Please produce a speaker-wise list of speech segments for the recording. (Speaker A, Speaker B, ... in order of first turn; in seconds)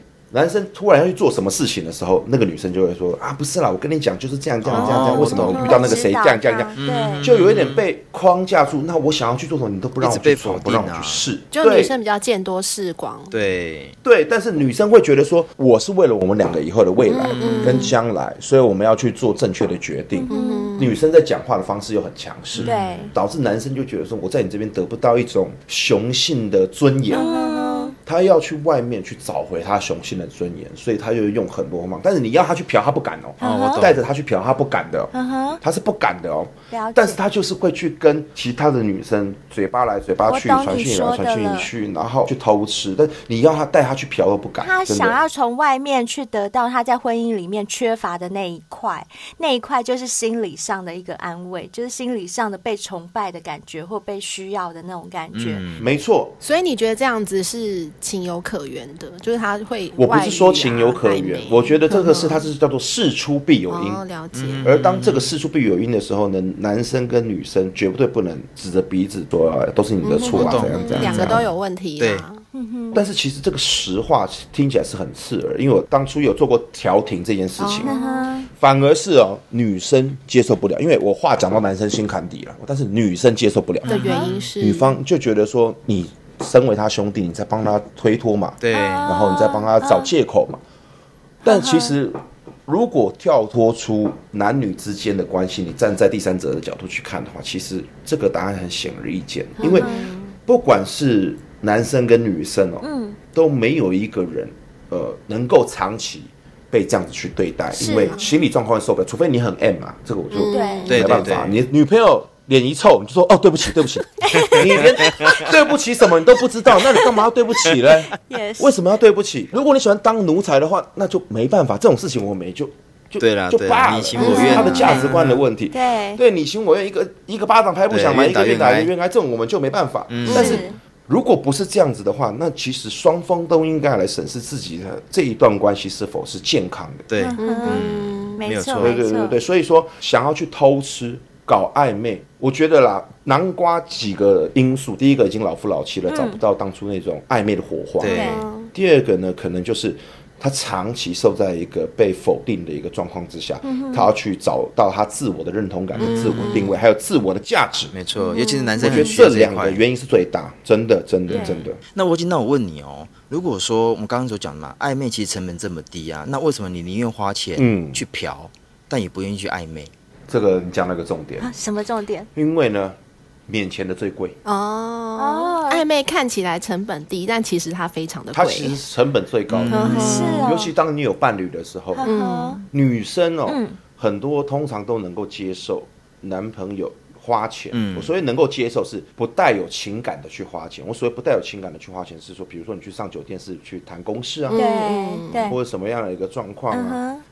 Speaker A: 0.3-11.9, 14.0-27.3, 28.0-45.2, 55.8-56.4, 60.0-64.0, 64.6-71.5, 72.9-77.9, 78.6-84.0, 84.6-90.6, 91.4-99.9, 100.5-137.1, 138.8-157.9, 158.8-161.8, 167.6-168.0, 170.3-171.5, 172.3-174.4, 178.3-182.1, 182.7-194.7, 195.5-197.0
Speaker B: 4.7-5.8, 6.8-7.8, 10.0-11.2, 13.3-14.0, 17.4-17.8, 22.6-23.0, 33.4-34.0, 55.3-55.9, 64.3-65.3, 70.3-72.3, 83.9-84.5, 88.6-89.1, 110.9-111.6, 114.4-115.5, 117.7-118.0, 123.2-125.4, 127.9-128.9, 130.1-130.6, 137.1-138.9, 148.0-148.4, 155.9-156.6, 157.9-159.8, 161.3-169.9, 179.5-180.3, 187.7-188.1
Speaker C: 4.7-6.0, 11.5-13.4, 17.1-17.9, 20.3-21.0, 27.1-27.9, 56.4-62.5, 63.7-64.7, 70.0-72.4, 77.6-78.3, 83.9-85.0, 99.6-100.2, 108.1-108.3, 110.3-111.0, 124.2-125.0, 130.3-130.6, 137.4-138.4, 148.1-148.7, 156.0-156.8, 174.4-178.8, 179.7-180.5, 182.0-182.7, 194.5-195.6
Speaker D: 4.7-7.3, 20.1-20.7, 22.6-23.1, 27.1-27.9, 33.4-33.9, 35.1-35.6, 36.7-37.2, 40.3-41.7, 44.6-55.6, 72.5-73.0, 77.8-78.5, 83.9-84.3, 88.7-90.1, 91.4-91.9, 99.6-100.3, 102.8-103.2, 107.7-108.2, 110.5-110.9, 114.2-114.9, 118.3-118.7, 124.2-125.1, 125.7-126.2, 130.3-130.8, 137.2-139.4, 146.1-146.4, 148.1-148.4, 153.6-154.1, 158.2-159.2, 161.3-161.6, 171.4-172.3, 175.2-175.8, 179.9-180.7, 181.9-182.6, 183.5-183.8, 194.6-195.6, 196.7-197.2